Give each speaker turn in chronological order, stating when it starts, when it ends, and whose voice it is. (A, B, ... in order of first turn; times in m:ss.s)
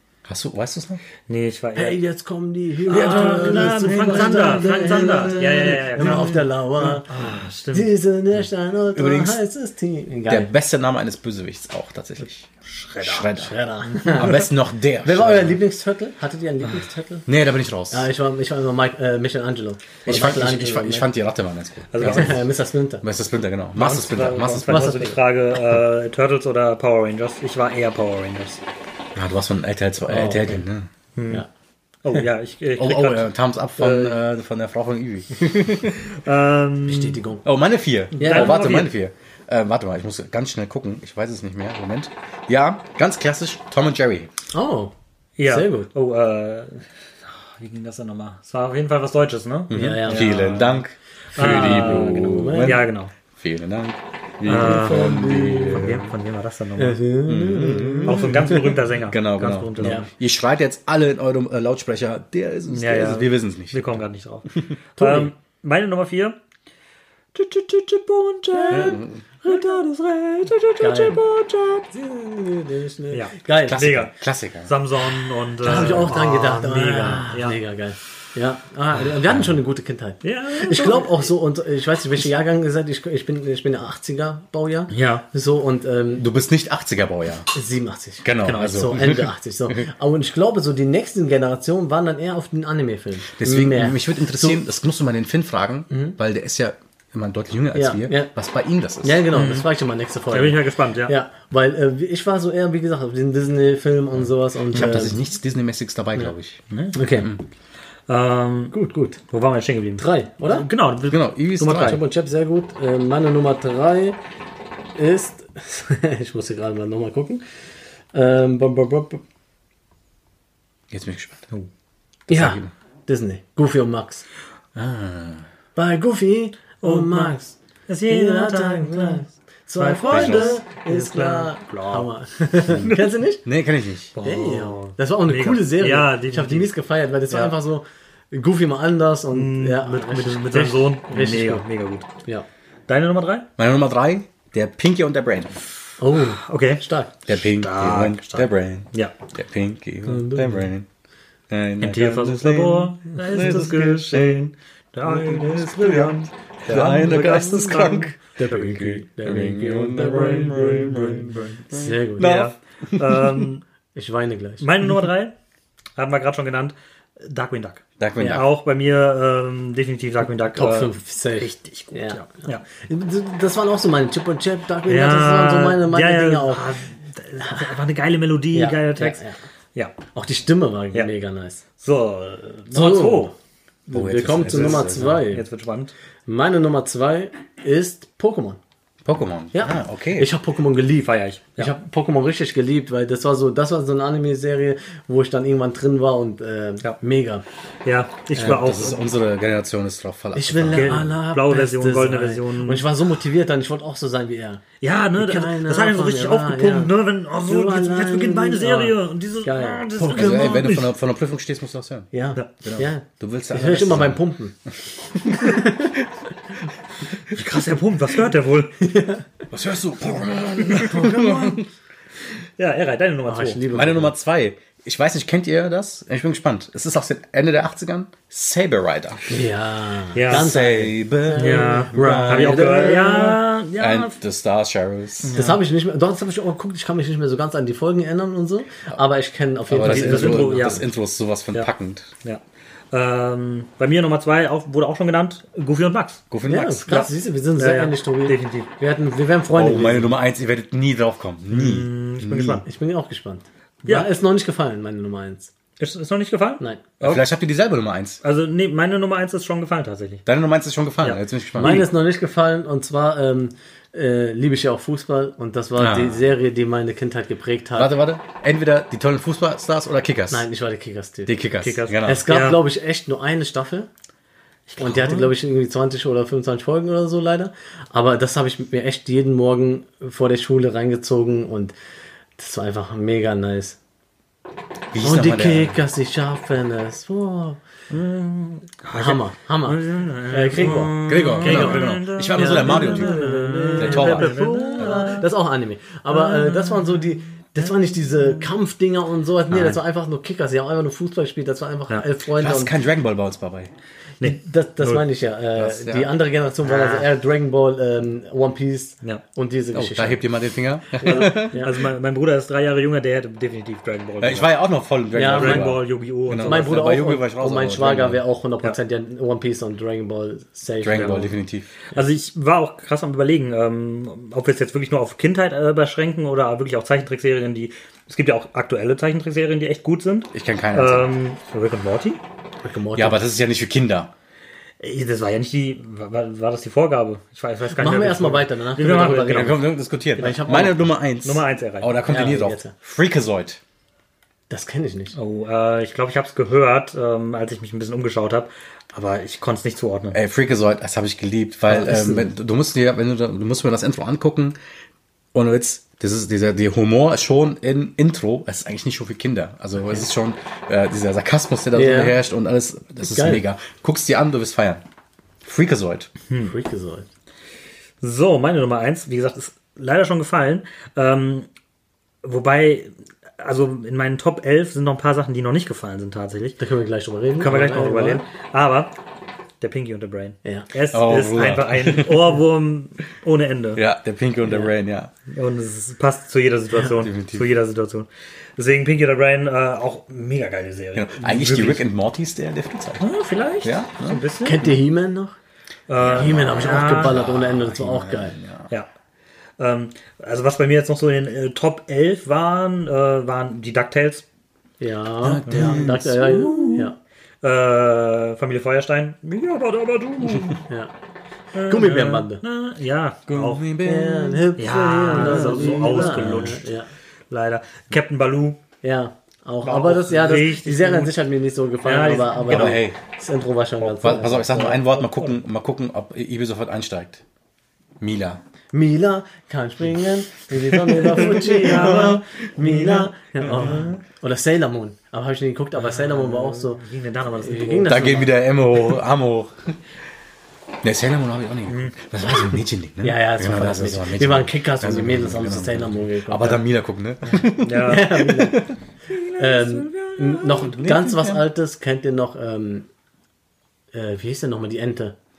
0:00.3-0:01.0 A
0:01.3-0:02.0 B
0:01.8-0:10.5 C
0:02.9-0:07.9 B
0:02.9-0:06.4 A
0:08.9-0:09.4 A
0:10.3-0:12.5 A
0:12.6-0:13.3 B
0:13.0-0:13.6 A
0:13.3-0:14.5 C
0:14.0-0:14.2 B
0:14.1-0:15.6 A
0:15.0-0:17.3 C
0:17.3-0:18.1 A
0:17.9-0:21.1 C
0:20.1-0:22.5 A
0:21.9-0:22.4 B
0:22.0-0:23.0 C
0:23.0-0:25.0 A
0:23.8-0:28.6 B
0:24.7-0:25.2 C
0:29.2-0:30.9 A
0:30.1-0:30.6 C
0:31.2-0:31.4 B
0:32.0-0:34.2 B
0:32.8-0:36.0 A
0:35.9-0:37.2 B
0:36.8-0:37.4 C
0:37.4-0:44.3 A
0:38.2-0:38.7 C
0:38.2-0:38.9 B
0:44.5-0:44.9 C
0:45.4-0:50.8 B
0:45.5-0:45.9 C
0:49.7-0:56.1 A
0:49.7-0:50.5 C
0:51.4-0:53.1 B
0:51.4-0:52.8 C
0:54.4-0:55.2 B
0:54.5-0:56.0 C
0:55.7-0:57.0 B
0:56.8-0:58.7 C
0:57.3-1:04.0 A
0:58.0-1:00.1 B
0:59.8-1:00.1 C
1:02.7-1:06.4 B
1:05.0-1:05.3 C
1:07.3-1:11.9 B
1:08.5-1:09.6 C
1:08.7-1:09.2 A
1:10.8-1:11.3 C
1:11.9-1:13.8 C
1:13.1-1:14.1 B
1:13.6-1:14.8 A
1:14.6-1:17.6 B
1:15.6-1:26.2 C
1:15.7-1:16.0 A
1:20.2-1:21.3 B
1:24.9-1:25.2 B
1:26.2-1:27.5 A
1:27.5-1:34.6 C
1:28.2-1:29.9 A
1:28.4-1:28.9 B
1:33.3-1:39.3 A
1:35.9-1:36.2 C
1:37.8-1:38.3 C
1:39.0-1:45.2 C
1:39.3-1:39.7 B
1:40.3-1:41.1 B
1:44.2-1:46.6 A
1:46.7-1:47.0 B
1:46.9-1:47.3 C
1:48.1-1:48.7 B
1:48.7-1:49.2 C
1:49.3-1:52.0 B
1:50.0-1:50.7 C
1:51.1-1:52.0 A
1:51.8-1:54.2 C
1:55.0-1:57.4 C
1:58.1-1:59.2 C
2:00.9-2:01.5 A
2:02.3-2:04.2 C
2:02.3-2:02.7 A
2:04.8-2:05.5 A
2:05.8-2:07.6 C
2:06.8-2:07.4 B
2:07.9-2:12.1 B
2:08.1-2:13.4 C
2:10.1-2:10.6 A
2:13.4-2:14.1 A
2:14.2-2:16.7 B
2:14.2-2:21.6 C
2:17.3-2:17.6 B
2:19.3-2:22.1 B
2:22.9-2:23.5 B
2:23.6-2:25.6 A
2:26.0-2:27.2 C
2:26.2-2:29.1 B
2:27.3-2:30.9 A
2:30.0-2:30.7 C
2:31.5-2:34.5 A
2:31.8-2:38.1 B
2:35.0-2:43.5 A
2:37.1-2:42.4 C
2:41.2-2:41.6 B
2:42.2-2:43.6 B
2:44.0-2:44.7 C
2:44.6-2:45.3 B
2:46.0-2:52.6 B
2:48.0-2:48.5 A
2:50.5-2:56.8 C
2:54.9-2:59.2 B
2:57.4-2:57.7 C
2:58.5-2:59.4 C
3:00.1-3:01.6 C
3:01.8-3:03.3 B
3:02.7-3:03.3 C
3:03.9-3:05.4 C
3:03.9-3:05.3 A
3:04.5-3:05.9 B
3:06.3-3:08.6 C
3:09.0-3:10.3 A
3:09.5-3:17.4 C
3:11.0-3:11.7 B
3:17.8-3:19.0 B
3:18.4-3:21.1 A
3:20.4-3:24.6 C
3:20.7-3:22.9 B
3:24.8-3:30.9 B
3:25.2-3:30.7 C
3:30.1-3:32.1 A
3:32.1-3:34.6 C
3:32.6-3:34.2 A
3:35.1-3:35.8 A
3:35.3-3:36.0 C
3:37.3-3:38.8 B
3:38.8-3:39.2 C
3:39.5-3:41.7 A
3:40.7-3:41.6 C
3:42.6-3:43.7 B
3:43.3-3:44.2 C
3:43.7-3:49.4 A
3:49.3-3:53.4 C
3:50.1-3:50.6 B
3:50.3-3:52.9 A
3:51.3-3:54.2 B
3:53.8-3:55.4 A
3:55.2-3:55.6 B
3:55.3-4:00.9 C
3:59.7-4:02.1 A
3:59.9-4:00.8 B
4:02.9-4:06.2 B
4:06.3-4:06.9 A
4:06.4-4:10.1 C
4:06.9-4:08.7 B
4:09.5-4:12.6 A
4:11.5-4:12.6 B
4:12.6-4:15.5 C
4:13.9-4:14.1 B
4:15.8-4:17.2 B
4:17.0-4:18.2 A
4:18.2-4:20.2 B
4:20.2-4:21.9 A
4:21.0-4:21.9 B
4:21.6-4:27.9 C
4:25.8-4:26.2 A
4:27.8-4:30.5 A
4:30.3-4:31.4 C
4:31.3-4:32.3 A
4:31.6-4:32.6 B
4:32.0-4:33.9 C
4:34.7-4:35.3 B
4:34.8-4:41.7 C
4:42.4-4:43.8 C
4:44.9-4:45.8 A
4:45.0-4:47.6 C
4:47.9-4:55.3 B
4:49.0-5:02.7 C
4:51.0-4:55.0 A
4:56.1-4:57.0 B
4:59.5-4:59.8 B
5:02.3-5:03.7 A
5:04.2-5:05.0 B
5:04.2-5:10.2 C
5:05.6-5:06.2 A
5:06.6-5:07.1 B
5:09.7-5:11.6 A
5:11.0-5:11.8 C
5:11.0-5:14.5 B
5:14.2-5:18.2 A
5:15.1-5:15.8 C
5:15.2-5:16.8 B
5:16.4-5:21.3 C
5:20.8-5:21.7 A
5:21.9-5:32.2 B
5:30.3-5:31.1 A
5:32.6-5:33.2 C
5:33.0-5:34.1 A
5:34.8-5:39.6 B
5:37.7-5:40.9 C
5:39.3-5:43.6 A
5:41.2-5:42.1 B
5:42.1-5:42.7 C
5:44.5-5:45.2 C
5:45.1-5:50.2 B
5:50.1-5:54.6 A
5:51.7-5:52.3 C
5:55.3-6:04.8 A
6:01.7-6:02.2 C
6:03.0-6:03.4 C
6:05.4-6:06.1 A
6:06.4-6:07.1 C
6:08.0-6:11.5 B
6:12.2-6:16.6 B
6:16.6-6:18.2 C
6:17.4-6:18.9 B
6:19.6-6:23.8 B
6:20.9-6:22.4 A
6:23.8-6:25.1 A
6:25.3-6:31.8 B
6:27.0-6:27.5 A
6:31.0-6:33.0 A
6:33.0-6:34.8 B
6:33.6-6:34.2 A
6:34.4-6:35.4 C
6:35.9-6:37.2 B
6:36.0-6:38.7 A
6:36.1-6:38.4 C
6:39.6-6:44.3 B
6:44.8-6:47.0 C
6:45.2-6:46.9 A
6:45.5-6:45.9 B
6:47.4-6:50.6 B
6:50.7-6:50.9 C
6:51.5-6:53.7 B
6:51.7-6:52.4 C
6:53.3-6:54.5 A
6:53.8-6:56.9 C
6:54.6-6:56.7 B
6:55.1-6:56.6 A
6:57.3-6:58.6 B
6:58.8-7:04.9 C
6:59.6-7:01.2 B
7:01.8-7:02.8 B
7:02.5-7:03.0 A
7:04.0-7:07.2 A
7:08.0-7:08.4 A
7:08.7-7:16.8 C
7:10.7-7:13.9 A
7:11.5-7:13.0 B
7:13.6-7:14.0 B
7:15.8-7:18.0 B
7:17.4-7:18.4 C
7:17.9-7:19.8 A
7:20.8-7:28.8 A
7:21.7-7:21.9 B
7:23.0-7:26.6 C
7:27.3-7:28.2 B
7:27.7-7:28.7 C
7:29.1-7:30.7 B
7:29.4-7:32.9 C
7:30.7-7:31.5 A
7:33.9-7:35.2 C